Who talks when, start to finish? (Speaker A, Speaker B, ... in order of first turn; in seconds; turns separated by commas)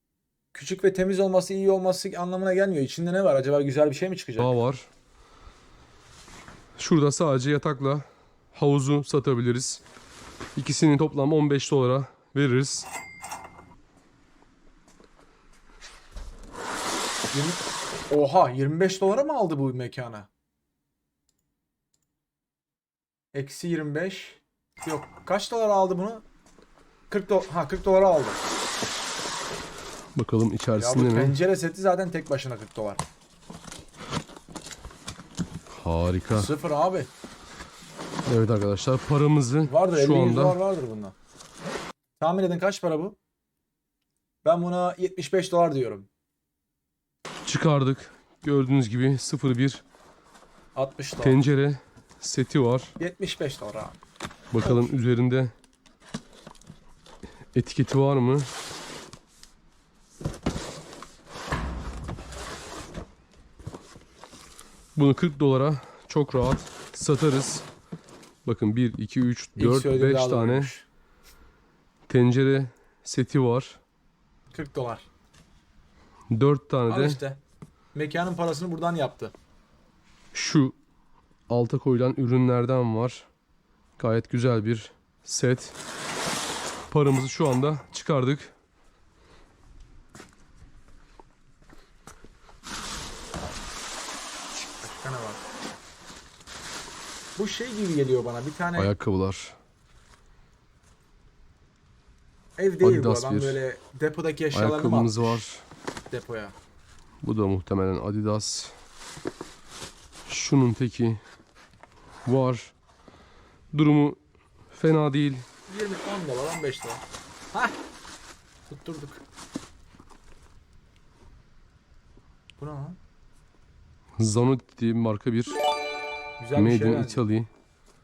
Speaker A: 0.5-4.5, Speaker B: 4.4-4.9, Speaker B: 6.8-9.8, Speaker B: 10.6-12.9, Speaker A: 17.3-20.3, Speaker A: 23.3-26.2, Speaker A: 27.1-28.4, Speaker B: 30.1-31.4, Speaker A: 30.8-33.0, Speaker B: 35.7-36.5, Speaker A: 36.3-37.1, Speaker B: 38.3-40.6, Speaker A: 39.6-41.2, Speaker A: 42.2-43.2, Speaker A: 44.4-46.1, Speaker B: 47.5-49.8, Speaker A: 50.8-51.4, Speaker B: 51.2-53.0, Speaker A: 53.0-54.0, Speaker B: 54.5-55.5, Speaker A: 54.6-54.9, Speaker B: 57.5-58.5, Speaker B: 65.0-67.7, Speaker B: 68.4-70.7, Speaker A: 69.6-70.8, Speaker B: 72.1-73.8, Speaker A: 74.5-75.1, Speaker B: 76.3-77.2, Speaker A: 76.9-77.4, Speaker A: 77.9-79.3, Speaker B: 80.3-80.8, Speaker B: 81.5-83.3, Speaker B: 84.0-85.8, Speaker B: 86.9-88.5, Speaker A: 94.8-95.4, Speaker A: 97.4-98.9, Speaker B: 98.8-99.6, Speaker A: 102.6-105.4, Speaker B: 102.8-103.6, Speaker B: 104.5-105.6, Speaker A: 106.1-106.6, Speaker B: 107.2-108.7, Speaker B: 110.3-111.2, Speaker B: 112.2-112.7, Speaker B: 113.7-114.2, Speaker B: 114.7-115.5, Speaker A: 115.7-117.8, Speaker A: 118.7-119.2, Speaker A: 122.6-123.0, Speaker B: 124.2-125.6, Speaker A: 126.4-127.2, Speaker B: 126.6-127.5